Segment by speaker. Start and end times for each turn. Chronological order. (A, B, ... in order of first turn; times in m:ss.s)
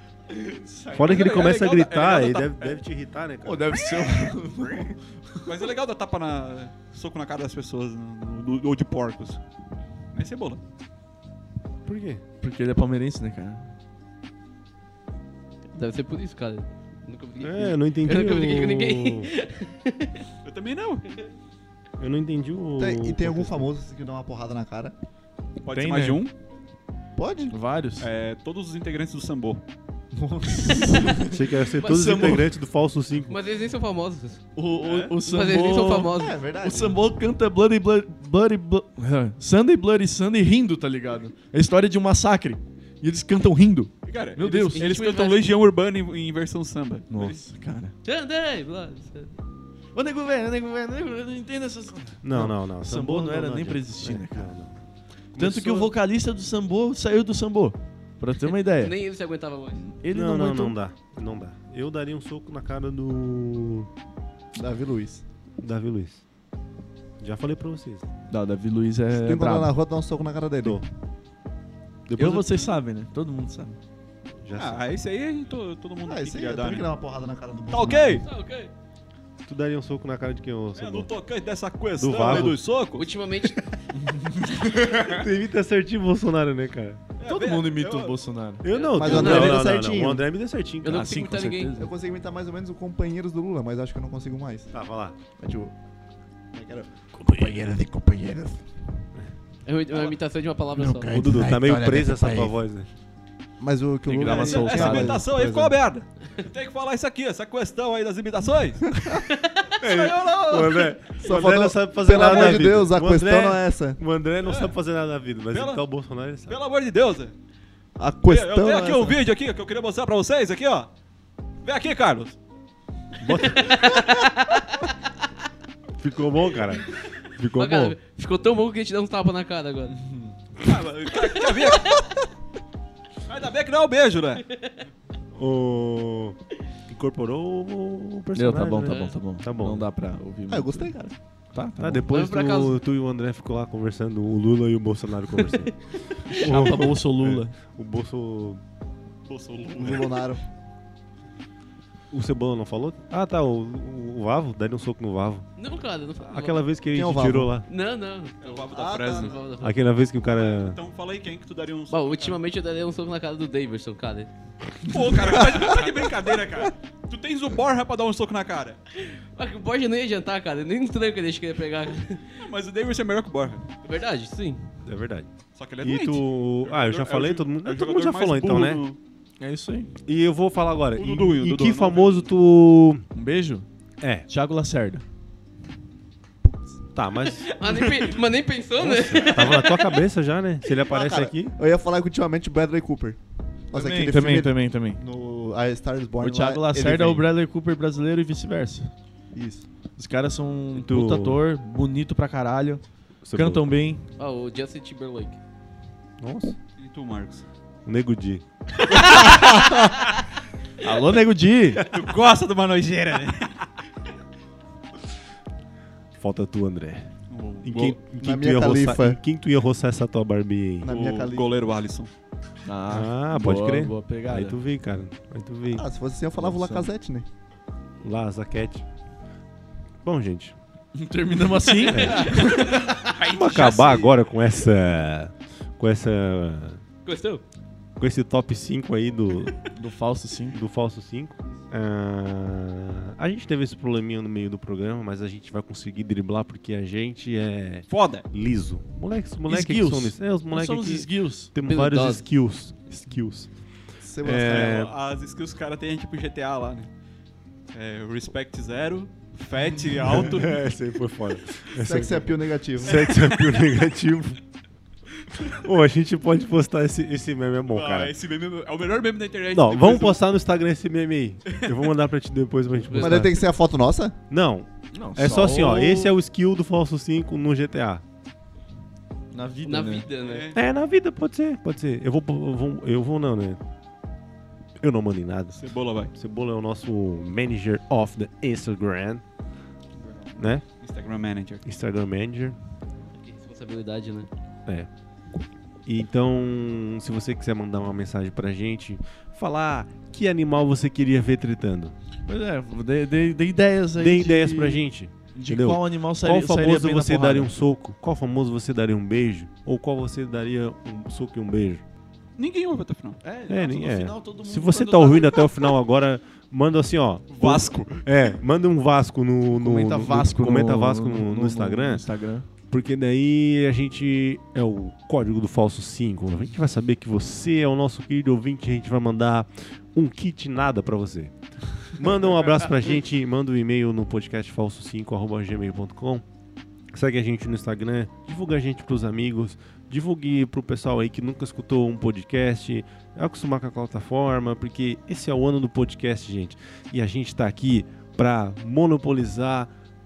0:00.3-0:01.2 A
0:00.9-0:03.8 B
0:00.9-0:02.8 C
0:03.4-0:05.5 A
0:05.4-0:09.4 C
0:10.1-0:10.6 C
0:11.8-0:12.2 B
0:12.4-0:13.7 A
0:15.7-0:20.2 D
0:17.4-0:19.3 B
0:20.4-0:21.1 C
0:22.0-0:23.7 B
0:22.8-0:24.9 E
0:25.6-0:26.3 C
0:25.7-0:26.2 A
0:27.2-0:27.5 E
0:27.5-0:28.1 A
0:28.0-0:29.6 C
0:30.1-0:32.4 A
0:31.2-0:33.3 B
0:31.8-0:32.3 D
0:33.3-0:34.4 D
0:34.6-0:44.9 A
0:34.8-0:35.1 C
0:35.2-0:36.4 D
0:36.1-0:37.0 E
0:44.1-0:47.4 C
0:44.7-0:45.4 D
0:47.1-0:47.9 A
0:48.0-0:49.3 D
0:49.9-0:54.5 A
0:52.2-0:54.7 B
0:55.3-0:55.9 B
0:55.4-0:59.0 A
0:58.7-0:59.8 D
0:59.8-1:00.7 A
1:00.1-1:03.9 B
1:04.5-1:05.2 E
1:05.6-1:06.2 B
1:07.2-1:08.0 B
1:08.3-1:09.7 A
1:09.1-1:10.8 E
1:12.1-1:12.5 B
1:12.1-1:13.8 A
1:14.4-1:14.9 B
1:14.5-1:16.9 C
1:16.0-1:18.2 E
1:17.7-1:18.2 C
1:18.2-1:18.7 D
1:19.4-1:21.1 B
1:20.8-1:23.1 C
1:22.0-1:22.6 B
1:23.0-1:23.6 D
1:23.9-1:25.2 A
1:25.0-1:27.0 B
1:27.2-1:28.2 C
1:27.2-1:29.2 A
1:28.6-1:31.1 B
1:28.7-1:29.6 D
1:28.9-1:30.2 E
1:30.8-1:31.8 D
1:30.8-1:31.9 A
1:31.8-1:34.7 E
1:34.7-1:35.2 B
1:35.4-1:35.7 A
1:36.5-1:38.6 E
1:39.6-1:41.2 D
1:40.8-1:42.5 E
1:41.1-1:42.9 B
1:43.6-1:45.8 E
1:44.0-1:45.2 A
1:44.2-1:49.0 C
1:49.2-1:49.6 D
1:49.8-1:51.2 C
1:49.8-1:56.6 B
1:51.2-1:54.0 E
1:52.2-1:52.7 C
1:54.4-1:54.7 C
1:55.5-1:55.8 C
1:56.5-1:57.3 C
1:58.0-1:59.2 E
1:58.2-2:00.9 C
2:01.6-2:02.4 C
2:03.2-2:04.0 B
2:03.8-2:04.7 D
2:06.0-2:08.0 B
2:07.5-2:10.0 D
2:09.9-2:10.3 A
2:10.6-2:12.1 C
2:11.5-2:12.0 D
2:13.3-2:14.4 C
2:14.5-2:14.8 D
2:15.3-2:16.4 B
2:16.9-2:19.9 B
2:18.3-2:21.0 A
2:18.8-2:19.2 D
2:20.5-2:21.2 E
2:21.5-2:22.0 A
2:21.8-2:25.7 B
2:22.1-2:22.8 D
2:26.3-2:27.6 A
2:26.3-2:28.6 B
2:29.2-2:30.2 C
2:29.7-2:30.4 E
2:32.1-2:35.5 B
2:35.6-2:36.6 D
2:36.2-2:37.6 B
2:36.9-2:37.5 E
2:37.7-2:39.8 D
2:38.4-2:39.4 C
2:38.7-2:39.3 E
2:39.6-2:40.8 B
2:40.3-2:42.4 C
2:41.9-2:44.3 D
2:44.9-2:48.8 C
2:45.3-2:46.0 E
2:49.0-2:52.4 D
2:52.4-2:53.7 C
2:53.8-2:54.7 D
2:54.8-2:55.3 B
2:55.6-2:59.0 C
2:55.8-2:58.8 B
2:59.4-2:59.9 A
3:00.0-3:03.0 B
3:01.0-3:02.3 C
3:03.1-3:03.6 A
3:04.0-3:04.3 B
3:04.3-3:05.0 A
3:06.4-3:06.8 E
3:06.9-3:07.5 B
3:07.5-3:10.0 D
3:07.6-3:08.2 C
3:08.8-3:11.6 B
3:10.8-3:13.2 E
3:13.7-3:17.3 E
3:13.7-3:15.0 A
3:16.2-3:18.9 A
3:19.3-3:19.6 E
3:20.0-3:22.8 A
3:20.7-3:21.4 B
3:23.2-3:23.6 B
3:23.3-3:24.0 A
3:24.2-3:25.4 D
3:26.2-3:26.6 B
3:26.8-3:27.4 C
3:27.8-3:28.4 B
3:28.9-3:30.0 C
3:30.8-3:31.8 A
3:31.9-3:33.7 C
3:36.2-3:37.1 B
3:37.3-3:38.0 C
3:37.6-3:40.9 B
3:38.2-3:39.2 E
3:40.8-3:41.5 E
3:40.8-3:42.1 C
3:42.6-3:44.6 A
3:42.9-3:45.8 B
3:45.7-3:47.2 E
3:46.4-3:46.9 A
3:48.0-3:48.8 B
3:50.0-3:50.6 B
3:50.9-3:53.1 A
3:51.8-3:54.1 C
3:51.9-3:52.4 B
3:53.2-3:56.8 B
3:57.0-3:57.4 D
3:58.0-3:59.6 B
3:59.7-4:00.6 A
4:00.5-4:13.5 B
4:07.9-4:08.2 C
4:09.5-4:11.5 A
4:11.6-4:12.2 D
4:14.0-4:14.8 E
4:14.2-4:14.9 B
4:14.4-4:16.9 C
4:17.7-4:20.6 C
4:20.0-4:24.4 B
4:21.8-4:23.1 E
4:22.8-4:23.8 C
4:25.2-4:25.5 C
4:25.4-4:28.1 B
4:27.7-4:30.2 C
4:29.5-4:33.4 B
4:32.8-4:33.4 D
4:33.0-4:34.2 E
4:34.3-4:38.0 B
4:34.9-4:36.1 A
4:39.3-4:40.1 A
4:39.6-4:40.5 D
4:40.2-4:40.6 C
4:40.5-4:43.6 B
4:44.8-4:45.6 B
4:45.5-4:46.1 C
4:46.1-4:49.2 B
4:50.0-4:51.6 C
4:50.4-4:50.6 B
4:51.6-4:52.6 B
4:53.1-4:54.3 D
4:55.8-5:01.9 B
5:02.3-5:04.8 A
5:04.0-5:11.8 B
5:05.3-5:07.5 A
5:12.4-5:13.2 C
5:13.2-5:15.5 A
5:13.5-5:22.0 B
5:17.3-5:18.0 C
5:19.5-5:22.5 A
5:22.7-5:36.2 B
5:36.9-5:49.7 B